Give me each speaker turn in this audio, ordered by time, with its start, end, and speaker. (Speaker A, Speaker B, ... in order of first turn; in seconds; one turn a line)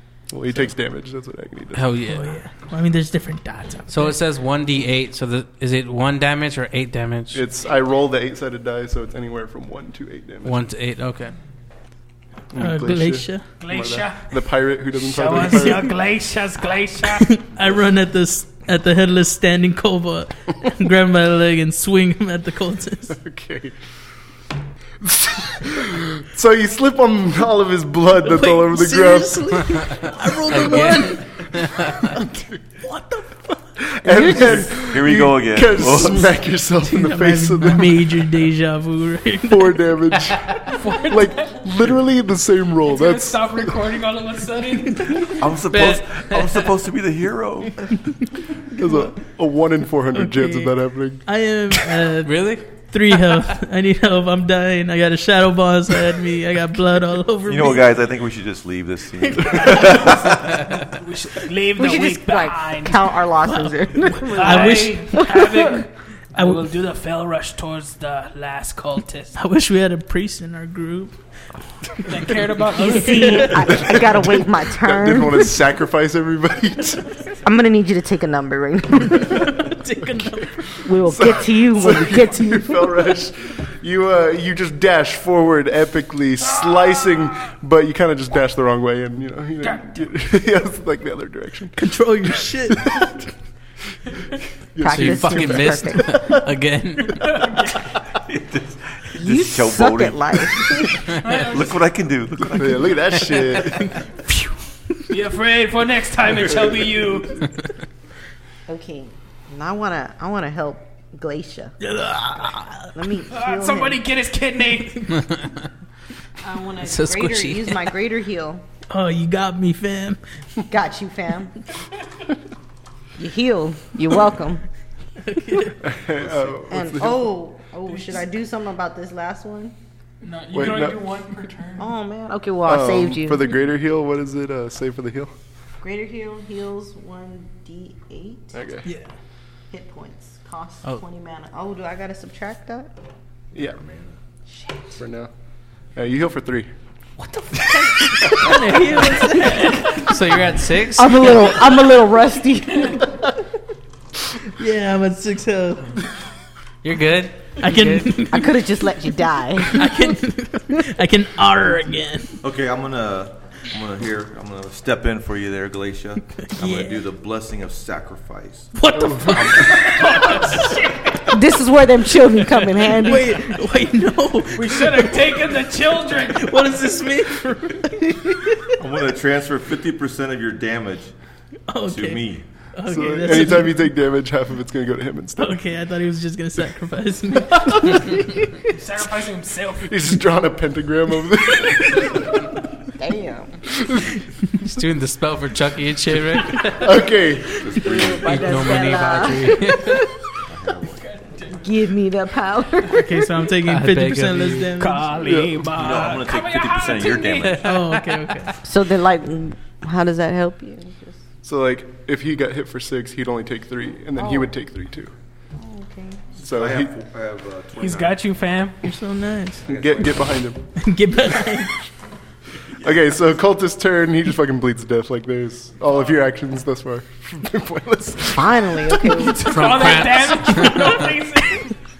Speaker A: 0.3-1.9
Speaker B: 1.7-2.3
Speaker C: 2.1-4.1
Speaker B: 3.9-7.4
Speaker A: 7.3-10.5
Speaker B: 10.4-11.3
Speaker A: 12.5-15.9
Speaker C: 12.6-13.4
Speaker D: 13.6-14.5
Speaker D: 15.0-17.4
Speaker C: 17.2-23.2
Speaker A: 23.1-23.8
Speaker A: 25.0-29.6
Speaker C: 28.2-31.2
Speaker B: 30.5-31.9
Speaker C: 32.8-33.4
Speaker A: 33.8-38.1
Speaker E: 34.0-34.8
Speaker F: 34.4-36.3
Speaker C: 36.8-39.8
Speaker A: 39.5-43.7
Speaker D: 40.6-41.7
Speaker D: 42.8-45.4
Speaker F: 45.4-47.9
Speaker B: 45.7-46.7
Speaker A: 48.8-51.2
Speaker C: 50.1-57.8
Speaker B: 52.2-52.7
Speaker F: 57.4-60.6
Speaker D: 59.5-63.0
Speaker E: 61.8-65.8
Speaker C: 63.4-65.3
Speaker D: 64.3-69.3
Speaker C: 66.3-66.6
Speaker C: 69.3-71.1
Speaker D: 72.0-73.8
Speaker E: 72.8-75.5
Speaker C: 72.8-73.7
Speaker A: 73.7-77.2
Speaker E: 77.4-79.7
Speaker C: 79.5-80.9
Speaker E: 80.8-82.9
Speaker A: 81.0-91.8
Speaker D: 86.5-87.3
Speaker D: 89.6-90.0
Speaker C: 91.8-93.0
Speaker A: 92.7-93.2
Speaker A: 94.7-96.4
Speaker E: 94.8-96.2
Speaker B: 94.9-97.3
Speaker D: 97.1-97.8
Speaker F: 98.1-100.3
Speaker E: 99.1-101.0
Speaker D: 101.2-101.8
Speaker F: 101.4-103.6
Speaker A: 102.5-103.8
Speaker D: 105.1-107.4
Speaker E: 108.7-111.8
Speaker C: 111.8-112.9
Speaker E: 112.9-114.0
Speaker D: 113.3-115.2
Speaker B: 115.1-115.5
Speaker E: 116.4-118.6
Speaker B: 116.8-117.8
Speaker C: 118.9-120.2
Speaker E: 120.7-121.5
Speaker E: 123.2-124.6
Speaker C: 125.2-125.8
Speaker A: 125.8-127.3
Speaker F: 126.1-126.6
Speaker E: 126.7-129.7
Speaker D: 130.2-131.9
Speaker A: 130.5-131.0
Speaker E: 131.8-133.5
Speaker A: 132.6-135.3
Speaker E: 135.8-138.5
Speaker A: 138.5-138.8
Speaker E: 139.7-142.9
Speaker F: 143.8-144.1
Speaker A: 144.9-145.3
Speaker A: 145.9-146.7
Speaker C: 147.2-149.9
Speaker B: 149.6-151.7
Speaker E: 150.9-153.1
Speaker C: 154.5-155.9
Speaker B: 156.8-158.3
Speaker C: 157.6-158.6
Speaker E: 158.3-159.9
Speaker C: 159.7-162.4
Speaker F: 162.4-168.7
Speaker C: 166.4-167.0
Speaker C: 168.7-170.8
Speaker A: 168.9-169.9
Speaker F: 169.3-169.9
Speaker D: 169.6-171.4
Speaker E: 171.3-173.6
Speaker C: 172.9-175.3
Speaker D: 174.5-176.6
Speaker C: 176.3-178.4
Speaker F: 178.8-181.1
Speaker C: 181.7-182.2
Speaker F: 181.8-182.4
Speaker C: 182.7-183.8
Speaker A: 182.8-185.6
Speaker C: 185.4-188.2
Speaker D: 188.7-190.0
Speaker A: 189.9-192.4
Speaker E: 193.0-193.5
Speaker A: 193.8-194.0
Speaker B: 194.6-196.9
Speaker A: 196.7-197.7
Speaker F: 197.6-198.7
Speaker E: 197.8-200.0
Speaker B: 198.2-200.1
Speaker F: 200.5-201.1
Speaker D: 200.9-201.7
Speaker E: 201.5-203.5
Speaker C: 202.8-205.1
Speaker B: 203.6-204.8
Speaker D: 204.8-207.9
Speaker A: 205.2-205.7
Speaker F: 205.7-207.7
Speaker C: 207.6-208.5
Speaker E: 208.6-211.2
Speaker A: 211.4-215.1
Speaker E: 214.2-214.5
Speaker E: 215.6-216.2
Speaker F: 216.4-218.2
Speaker A: 216.4-216.9
Speaker D: 217.8-218.8
Speaker C: 218.8-219.7
Speaker F: 219.6-220.3
Speaker A: 219.6-220.6
Speaker C: 220.8-221.7
Speaker A: 222.8-228.9
Speaker E: 228.2-229.4
Speaker D: 229.1-231.7
Speaker B: 229.4-231.0